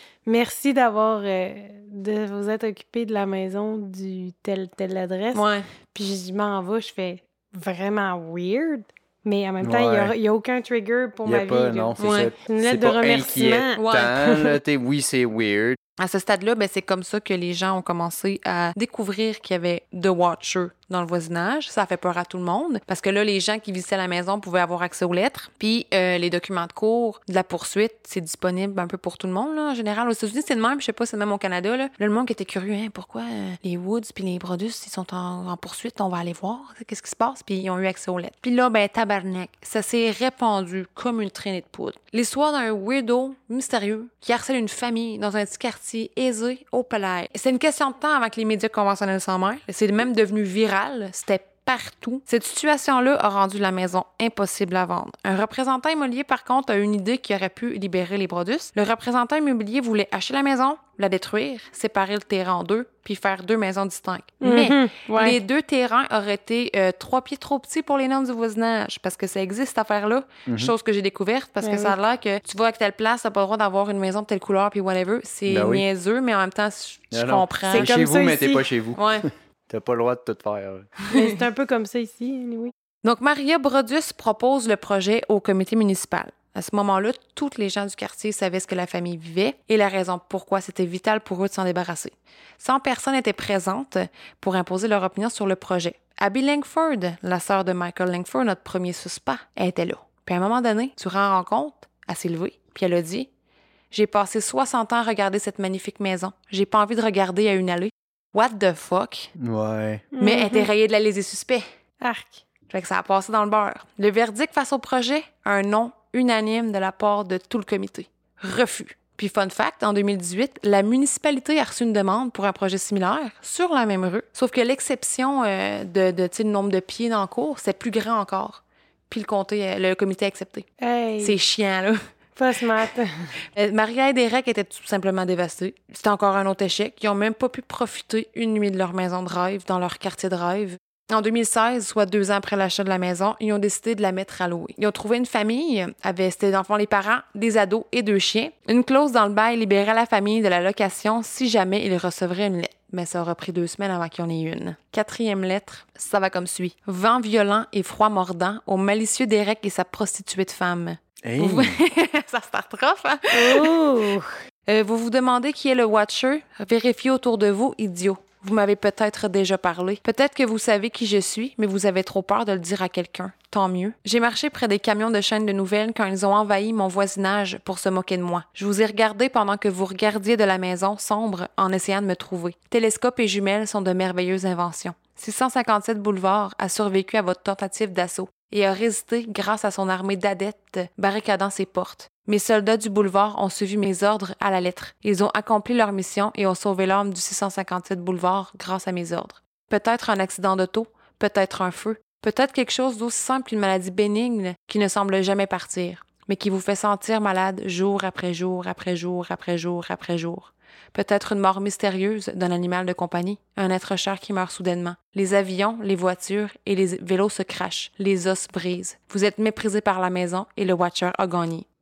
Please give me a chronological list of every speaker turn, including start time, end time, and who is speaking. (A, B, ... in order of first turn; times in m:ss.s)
0:00.2-0:11.9 A
0:05.3-0:05.7 B
0:09.6-0:10.1 C
0:11.2-0:15.8 C
0:12.0-0:12.3 B
0:12.4-0:13.8 A
0:13.8-0:14.2 B
0:16.0-1:17.9 B
1:04.4-1:05.4 A
1:10.5-1:10.7 C
1:11.6-1:11.9 A
1:15.5-1:15.8 C
1:17.1-1:20.9 C
1:17.7-1:18.6 A
1:19.0-1:19.2 B
1:21.0-1:21.3 B
1:21.1-1:22.7 A
1:23.0-1:43.3 B
1:43.9-1:49.3 B
1:49.4-1:50.1 C
1:50.1-1:50.7 A
1:50.2-1:51.6 B
1:52.0-1:52.4 A
1:52.7-2:10.7 B
2:10.8-2:11.4 A
2:11.2-2:12.0 B
2:12.4-2:13.3 A
2:13.6-2:43.8 B
2:41.2-2:41.8 C
2:43.3-2:44.3 A
2:44.7-3:41.7 B